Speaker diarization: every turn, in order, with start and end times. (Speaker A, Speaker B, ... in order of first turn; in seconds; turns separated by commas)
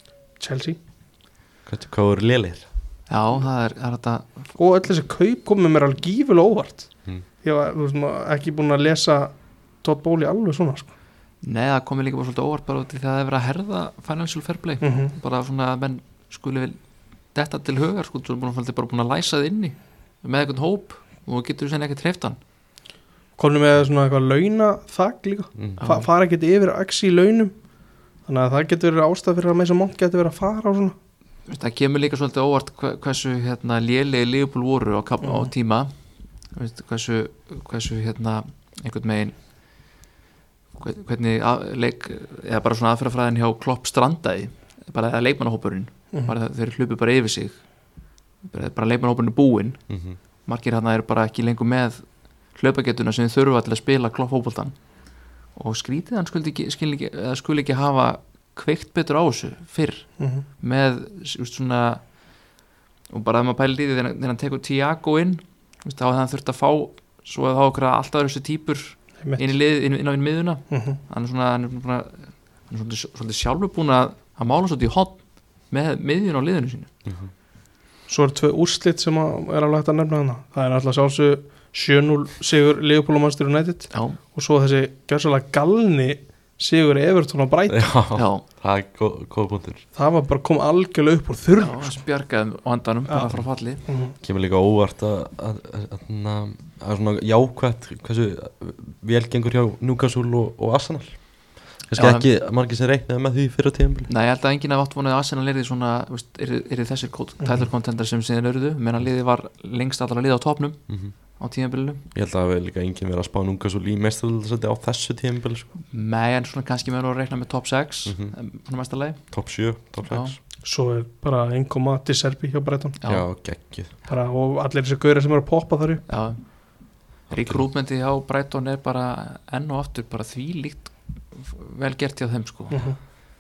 Speaker A: 0.4-0.8, Speaker B: 1.7-2.7, Speaker C: 3.1-4.5, Speaker A: 4.6-6.9, Speaker A: 7.4-10.9, Speaker C: 11.4-16.8, Speaker A: 14.8-15.1, Speaker C: 17.3-22.4, Speaker A: 23.4-27.5, Speaker C: 25.8-26.1, Speaker A: 28.3-30.9, Speaker C: 31.5-35.9, Speaker A: 35.2-35.5, Speaker C: 36.5-39.4, Speaker C: 40.8-47.7, Speaker C: 48.4-49.8, Speaker B: 49.9-50.2, Speaker C: 50.5-54.8, Speaker C: 55.5-62.1, Speaker A: 60.2-60.5, Speaker C: 63.1-76.9, Speaker A: 70.7-71.0, Speaker A: 78.1-87.9, Speaker C: 83.9-84.2, Speaker B: 87.7-89.8, Speaker C: 88.1-88.4, Speaker A: 90.0-92.0, Speaker C: 91.6-93.8, Speaker A: 93.9-94.2, Speaker B: 94.2-104.1, Speaker C: 102.0-102.3, Speaker C: 104.1-110.8, Speaker C: 111.4-112.0, Speaker B: 112.1-115.7, Speaker C: 115.9-119.3, Speaker B: 118.1-118.3, Speaker B: 119.3-120.4, Speaker C: 120.0-120.3, Speaker A: 120.6-123.0, Speaker C: 123.0-123.3, Speaker B: 123.1-123.9, Speaker A: 124.1-126.0, Speaker C: 126.1-126.5, Speaker C: 127.3-132.8, Speaker B: 127.3-127.6, Speaker A: 132.7-133.0